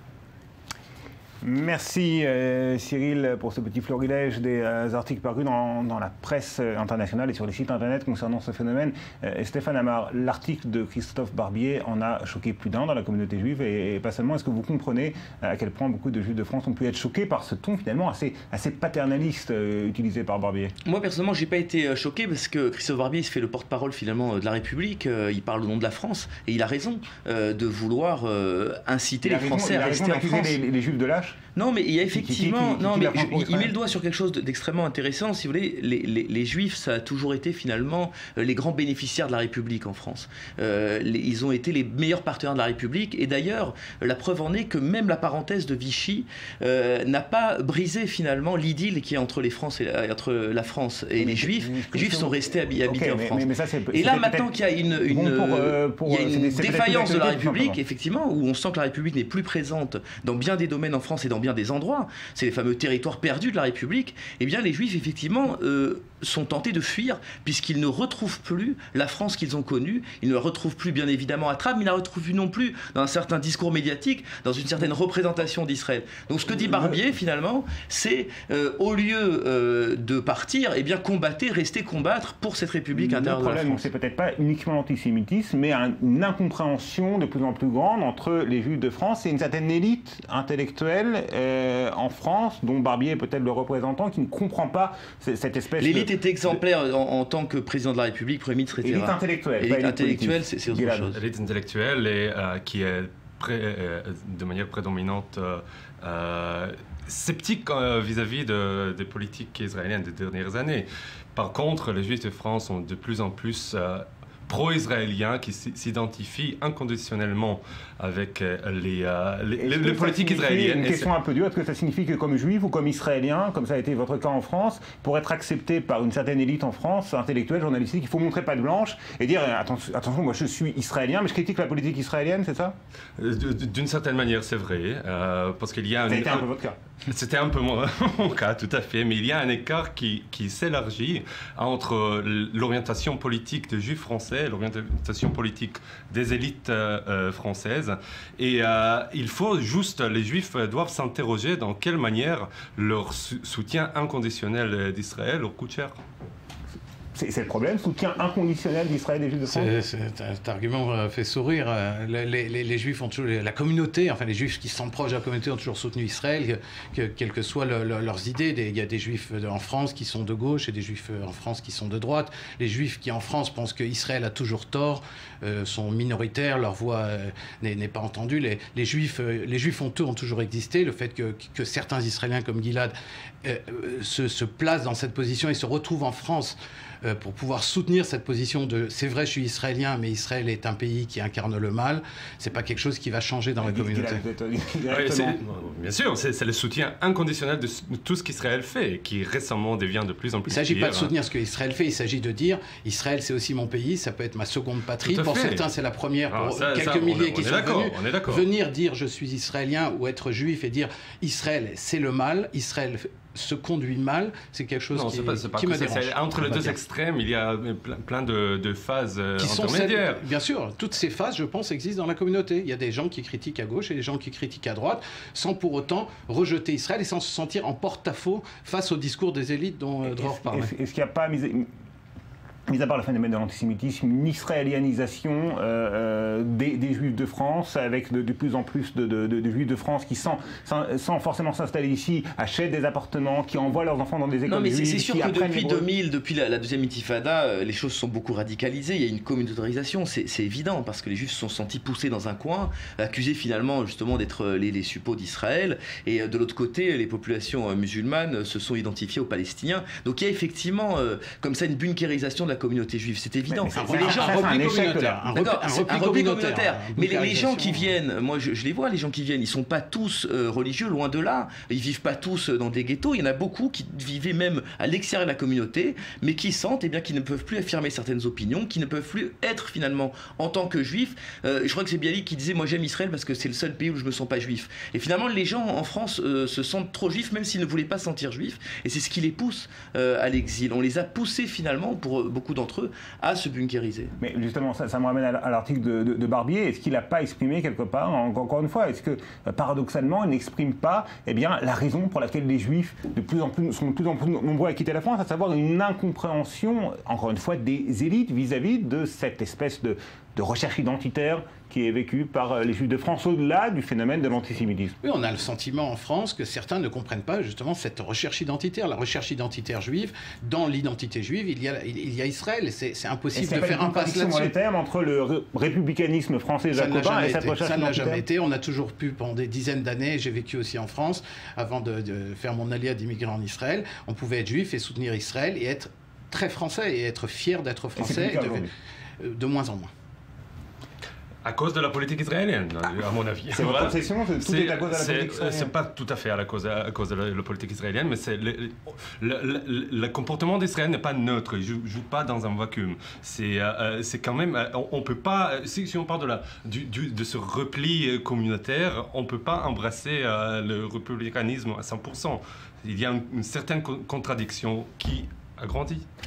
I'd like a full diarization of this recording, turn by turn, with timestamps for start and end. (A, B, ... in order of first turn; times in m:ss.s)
0:01.4-0:20.7 A
0:20.8-0:30.6 B
0:29.2-0:31.4 A
0:31.6-1:23.8 B
0:32.1-0:33.7 A
0:51.2-0:54.5 A
0:55.1-0:57.8 A
1:16.6-1:17.0 A
1:22.9-1:36.6 A
1:35.8-1:41.2 B
1:38.8-1:41.1 A
1:41.1-2:01.1 C
1:59.6-2:12.8 A
2:13.2-2:16.5 C
2:16.1-2:16.8 A
2:17.0-2:36.0 C
2:37.1-2:39.7 A
2:39.4-3:02.9 D
3:03.4-3:14.2 D
3:13.6-3:15.4 A
3:14.9-3:21.1 C
3:20.5-3:36.8 D
3:25.0-3:25.7 C
3:26.3-3:28.5 C
3:34.9-3:40.2 C
3:39.4-3:50.7 D
3:50.0-3:51.7 A
3:52.7-4:05.9 A
4:04.5-4:24.6 B
4:23.5-4:25.3 A
4:23.7-4:28.0 D
4:25.3-4:54.1 B
4:54.2-5:15.0 A
5:15.0-5:24.5 D
5:23.3-5:28.2 A
5:26.7-5:38.7 D
5:38.0-5:38.7 A
5:39.2-5:39.9 D
5:41.4-6:06.0 C
5:43.5-5:45.7 A